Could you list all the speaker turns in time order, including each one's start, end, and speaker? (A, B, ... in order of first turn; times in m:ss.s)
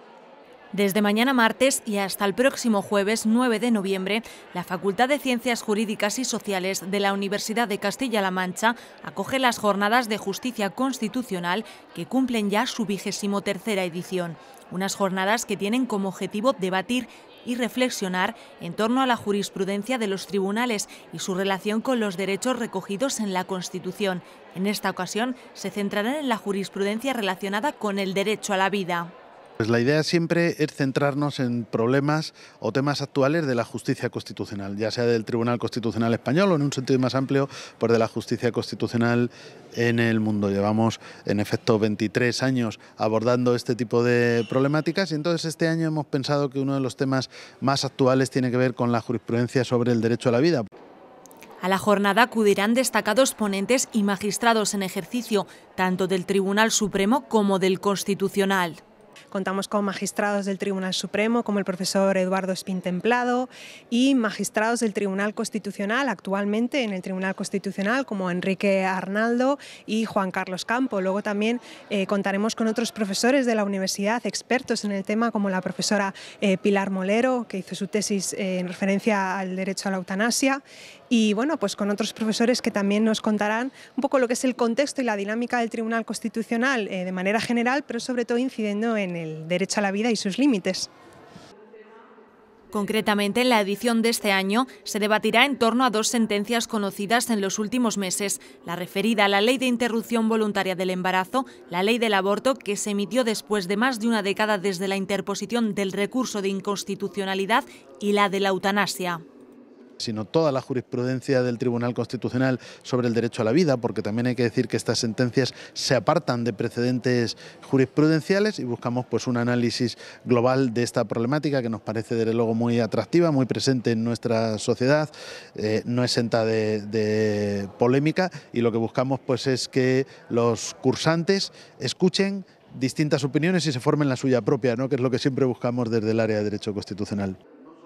0:00.7-0:29.1 A
0:29.6-0:50.6 B
0:51.6-0:58.8 A
0:59.3-1:30.9 C
1:32.7-1:49.2 A
1:50.0-2:17.4 B